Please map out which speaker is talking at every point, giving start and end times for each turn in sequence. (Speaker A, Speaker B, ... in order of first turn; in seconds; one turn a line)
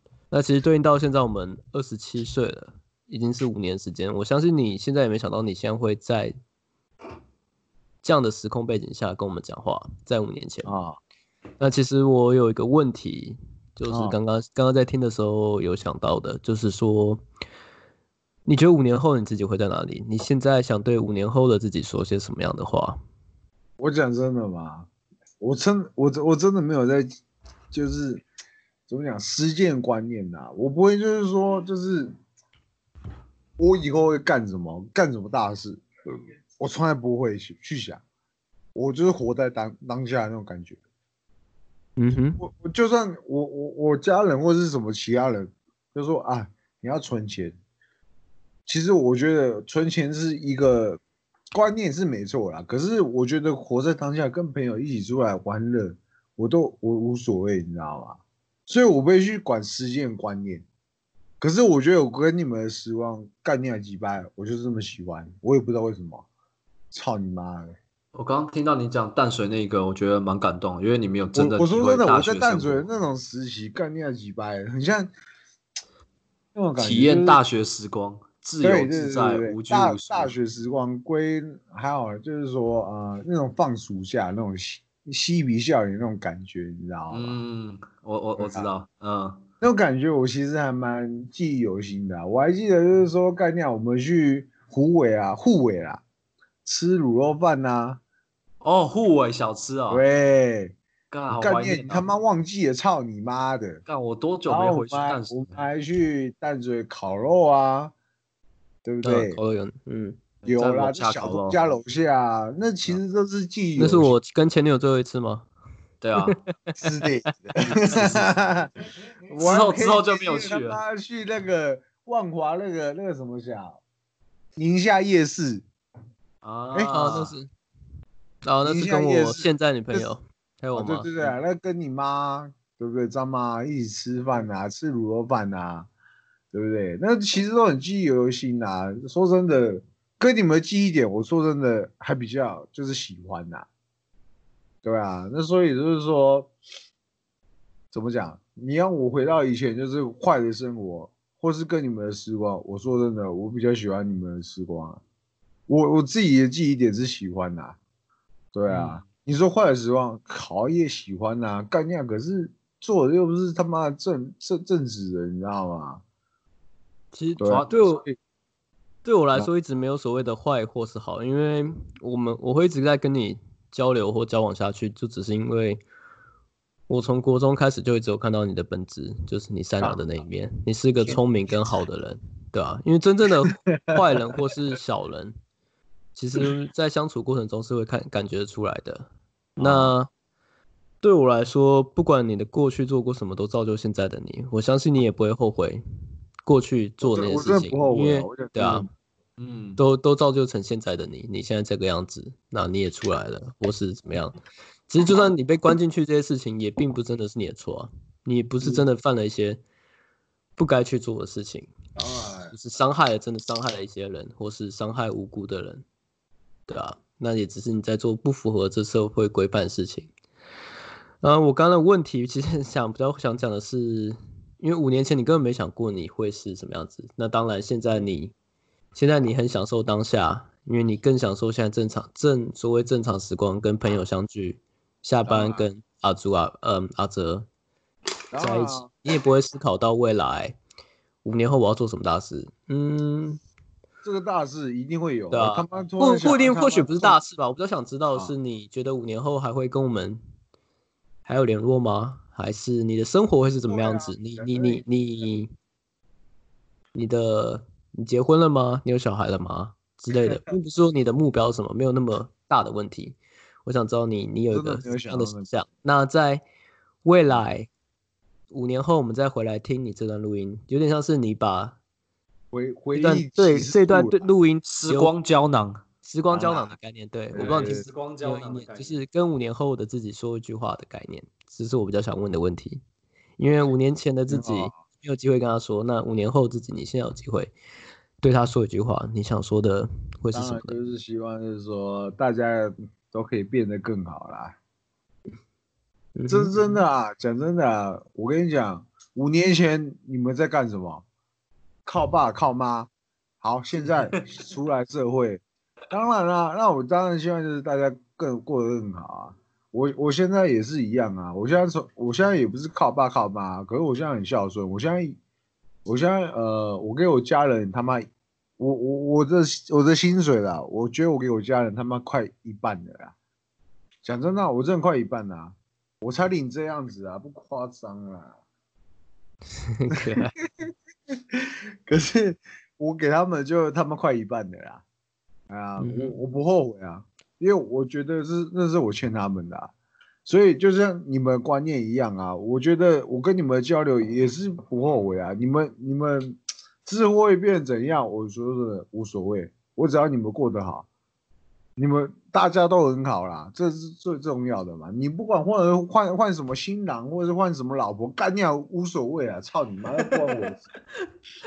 Speaker A: 0.3-6.4
Speaker A: 8.0-10.7
Speaker B: 10.7-11.0
Speaker A: 11.6-17.2
Speaker B: 13.9-14.2
Speaker A: 18.4-23.0
Speaker B: 23.8-24.9
Speaker B: 25.4-27.2
Speaker B: 27.7-28.2
Speaker B: 28.9-32.1
Speaker B: 33.6-35.9
Speaker B: 36.6-38.0
Speaker B: 38.7-40.8
Speaker A: 42.0-42.4
Speaker B: 42.4-47.6
Speaker B: 48.7-51.0
Speaker B: 51.5-60.6
Speaker B: 61.4-66.3
Speaker B: 66.9-67.7
Speaker C: 68.1-72.9
Speaker B: 71.3-75.1
Speaker B: 76.5-77.4
Speaker C: 76.8-80.3
Speaker B: 78.6-87.4
Speaker C: 87.1-89.4
Speaker B: 88.4-88.7
Speaker B: 89.6-96.0
Speaker B: 96.7-98.0
Speaker C: 98.6-100.0
Speaker B: 99.9-100.8
Speaker C: 101.1-102.1
Speaker B: 101.3-103.8
Speaker C: 103.9-105.7
Speaker B: 104.5-107.9
Speaker B: 108.8-109.4
Speaker A: 109.0-110.2
Speaker C: 110.4-111.7
Speaker B: 110.5-114.2
Speaker A: 113.8-115.5
Speaker C: 116.0-116.4
Speaker A: 116.2-116.9
Speaker B: 116.8-118.7
Speaker C: 117.9-118.3
Speaker B: 119.3-123.8
Speaker C: 119.3-120.8
Speaker B: 124.6-125.7
Speaker C: 126.4-127.4
Speaker B: 126.7-127.3
Speaker A: 126.9-127.5
Speaker A: 128.4-131.1
Speaker B: 128.6-130.1
Speaker B: 130.7-135.9
Speaker B: 136.5-143.7
Speaker B: 144.8-146.5
Speaker B: 147.9-155.0
Speaker B: 155.7-157.8
Speaker B: 158.5-166.0
Speaker C: 158.7-159.1
Speaker A: 167.1-168.1
Speaker B: 167.4-168.2
Speaker C: 167.4-168.0
Speaker A: 169.1-175.8
Speaker A: 176.9-185.4
Speaker B: 183.4-184.2
Speaker A: 186.2-190.1
Speaker B: 189.6-189.9
Speaker A: 191.0-195.8
Speaker A: 196.4-198.9
Speaker B: 197.0-198.9
Speaker C: 199.4-199.8
Speaker A: 199.8-209.6
Speaker A: 210.6-211.7
Speaker B: 211.9-212.5
Speaker A: 212.5-215.8
Speaker A: 216.7-220.1
Speaker A: 221.2-228.3
Speaker A: 228.9-237.5
Speaker B: 235.2-235.7
Speaker B: 238.3-238.9
Speaker A: 238.4-240.6
Speaker A: 241.2-243.4
Speaker B: 244.0-247.2
Speaker A: 245.3-250.2
Speaker A: 251.3-255.5
Speaker B: 253.7-254.8
Speaker A: 256.9-266.4
Speaker B: 260.1-260.4
Speaker B: 264.5-265.5
Speaker A: 267.0-267.7
Speaker A: 268.5-271.8
Speaker B: 272.5-274.3
Speaker A: 272.9-275.1
Speaker C: 274.6-275.9
Speaker A: 276.0-282.8
Speaker B: 276.3-276.7
Speaker B: 277.3-277.9
Speaker C: 277.3-279.0
Speaker A: 283.4-287.5
Speaker B: 284.3-284.8
Speaker A: 288.2-290.8
Speaker B: 290.3-294.6
Speaker A: 296.1-296.6
Speaker B: 296.3-301.1
Speaker B: 301.9-302.9
Speaker B: 303.4-315.2
Speaker B: 315.9-318.1
Speaker B: 318.6-323.1
Speaker B: 324.0-328.4
Speaker A: 329.7-330.3
Speaker B: 330.0-334.8
Speaker B: 335.5-339.7
Speaker A: 335.8-336.1
Speaker B: 340.2-350.9
Speaker B: 351.8-360.6